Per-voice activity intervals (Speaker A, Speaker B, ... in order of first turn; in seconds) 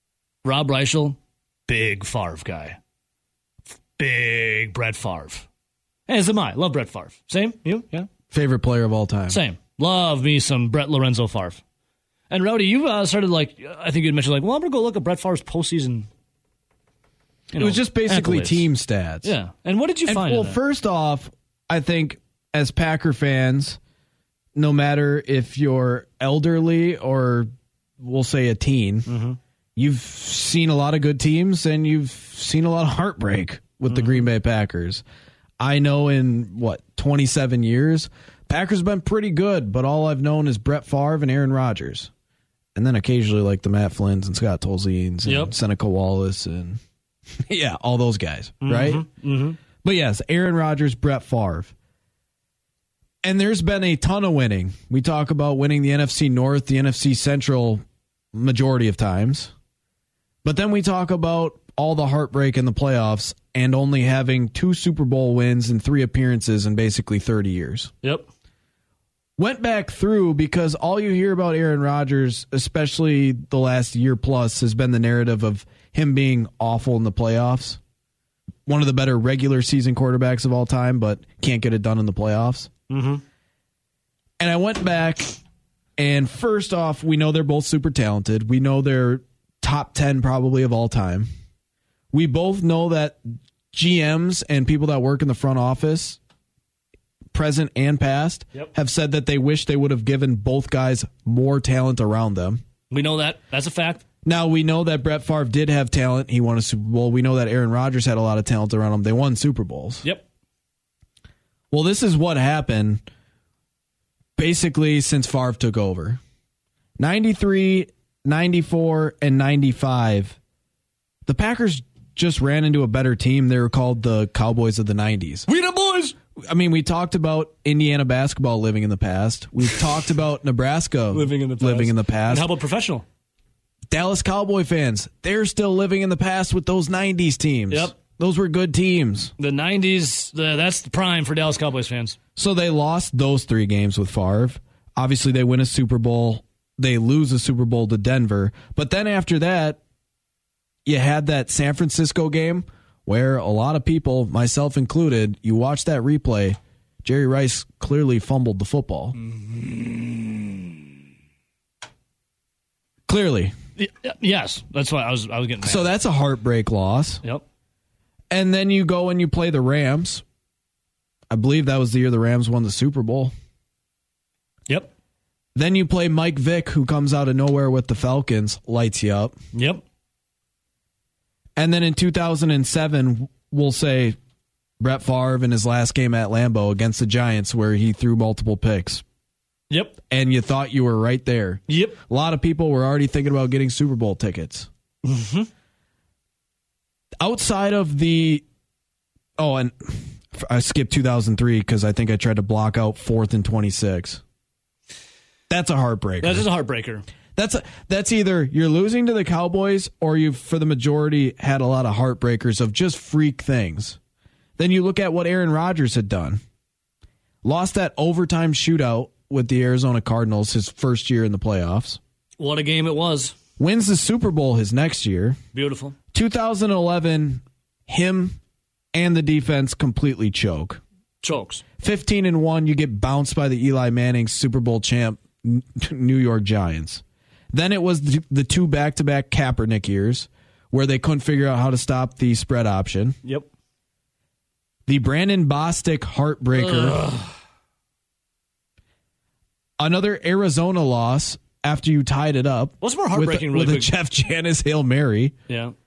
Speaker A: 0.4-2.8, 4.0-5.5, 6.1-8.1, 9.3-11.6, 12.3-16.1, 17.5-18.7, 19.2-20.6, 29.1-29.4, 33.9-34.3, 45.3-45.5, 48.6-49.6, 68.0-68.3, 82.9-83.2, 102.9-104.0, 125.5-126.1, 131.1-133.1, 137.7-137.9, 139.4-142.2, 159.2-160.8, 163.8-165.9, 179.5-179.8, 189.7-190.0, 191.7-192.0, 195.0-195.5, 206.2-207.1, 222.4-223.4, 225.5-225.9, 231.2-231.6, 246.5-247.4, 252.8-253.9, 255.5-255.7
Speaker B: 8.3-9.4, 17.5-19.3, 20.1-23.8, 24.6-29.1, 29.8-35.0, 35.6-42.1, 42.8-46.8, 47.4-49.1, 49.8-51.7, 53.2-59.5, 60.4-67.9, 69.4-77.8, 78.7-82.7, 84.4-85.3, 86.0-91.3, 92.1-96.2, 97.3-102.6, 104.2-110.0, 111.7-113.0, 114.4-116.2, 117.0-120.4, 121.3-125.5, 126.4-132.5, 133.9-139.3, 142.4-149.8, 150.9-159.1, 163.1-163.6, 165.6-167.2, 168.3-170.2, 171.3-173.3, 175.6-179.4, 181.6-184.2, 184.8-189.0, 190.1-194.7, 197.2-198.4, 199.4-204.2, 205.5-206.5, 207.4-214.0, 214.6-216.4, 217.4-222.0, 223.6-225.4, 226.1-228.4, 228.9-230.8, 231.8-243.2, 244.9-247.0, 249.8-255.3